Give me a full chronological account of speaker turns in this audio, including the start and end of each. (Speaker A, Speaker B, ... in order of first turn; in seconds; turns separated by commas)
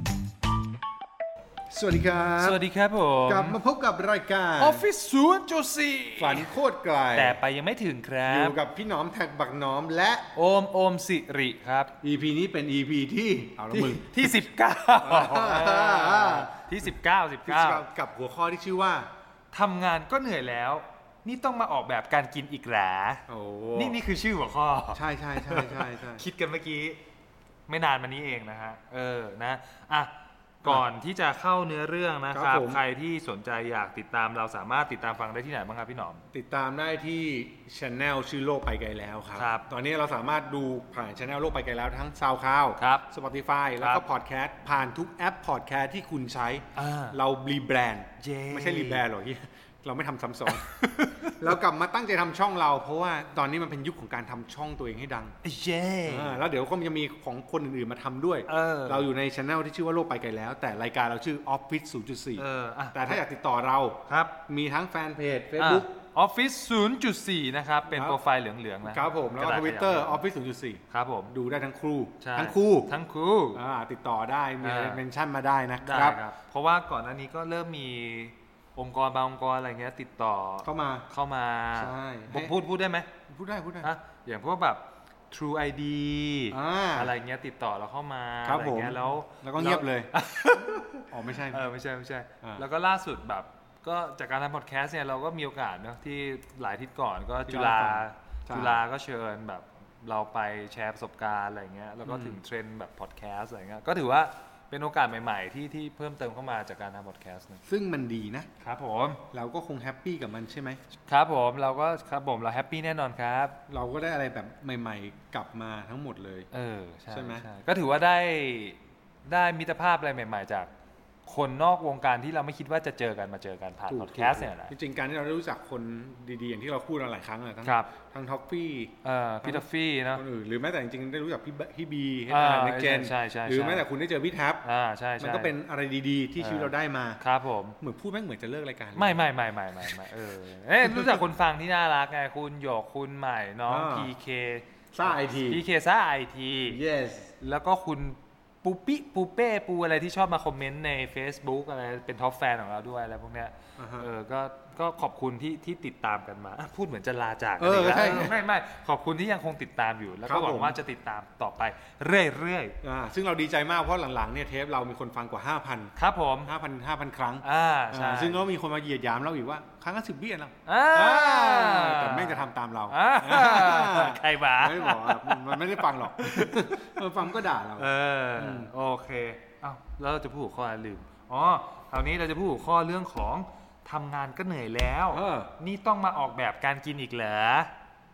Speaker A: 1.7-2.6, Speaker B: 2.4-3.6, Speaker A: 3.2-4.8, Speaker B: 4.6-6.5, Speaker A: 6.2-7.4, Speaker B: 7.1-8.6, Speaker A: 8.2-10.3, Speaker B: 10.3-11.9, Speaker A: 12.0-14.4, Speaker B: 13.7-17.8, Speaker A: 15.0-16.6, Speaker A: 17.4-19.1, Speaker B: 19.5-23.2, Speaker A: 23.3-24.0, Speaker B: 23.8-27.0, Speaker A: 24.9-26.2, Speaker B: 27.7-36.2, Speaker A: 32.3-32.8, Speaker A: 36.3-55.4, Speaker B: 39.4-39.6, Speaker B: 42.8-43.0, Speaker B: 43.8-44.0, Speaker B: 46.7-47.2, Speaker B: 48.2-49.0, Speaker B: 50.5-51.5, Speaker B: 55.4-56.4, Speaker A: 56.0-65.9, Speaker B: 58.5-59.1, Speaker B: 62.4-63.2, Speaker B: 64.1-64.3, Speaker B: 65.6-70.2, Speaker A: 67.9-68.2, Speaker A: 68.8-72.9, Speaker B: 70.9-71.3, Speaker B: 72.2-73.6, Speaker A: 73.5-76.2, Speaker B: 74.6-75.0, Speaker B: 75.8-83.1, Speaker A: 80.6-81.1, Speaker A: 81.8-82.5, Speaker A: 83.3-83.9, Speaker B: 83.8-107.6, Speaker A: 86.5-87.1, Speaker A: 88.4-91.7, Speaker A: 97.5-98.8, Speaker A: 102.0-102.4, Speaker A: 107.7-108.5, Speaker B: 108.6-109.2, Speaker A: 109.3-110.8, Speaker B: 111.1-113.6, Speaker A: 113.7-116.5, Speaker B: 116.5-120.7, Speaker A: 117.1-117.5, Speaker B: 121.2-124.7, Speaker A: 123.9-134.7, Speaker B: 127.6-127.9, Speaker B: 129.0-130.2, Speaker B: 132.3-133.9, Speaker B: 134.6-135.6, Speaker A: 135.2-137.2, Speaker B: 136.4-137.8, Speaker A: 137.8-139.2, Speaker B: 139.0-146.8, Speaker A: 140.8-141.2, Speaker A: 143.7-144.1, Speaker A: 144.9-145.6, Speaker A: 146.7-147.3, Speaker B: 147.4-162.8, Speaker A: 153.8-154.1, Speaker A: 157.6-158.3, Speaker A: 160.2-160.8, Speaker A: 162.8-178.7, Speaker B: 166.0-166.5, Speaker B: 167.4-168.4, Speaker B: 170.7-176.8, Speaker B: 177.8-187.7, Speaker A: 185.1-185.5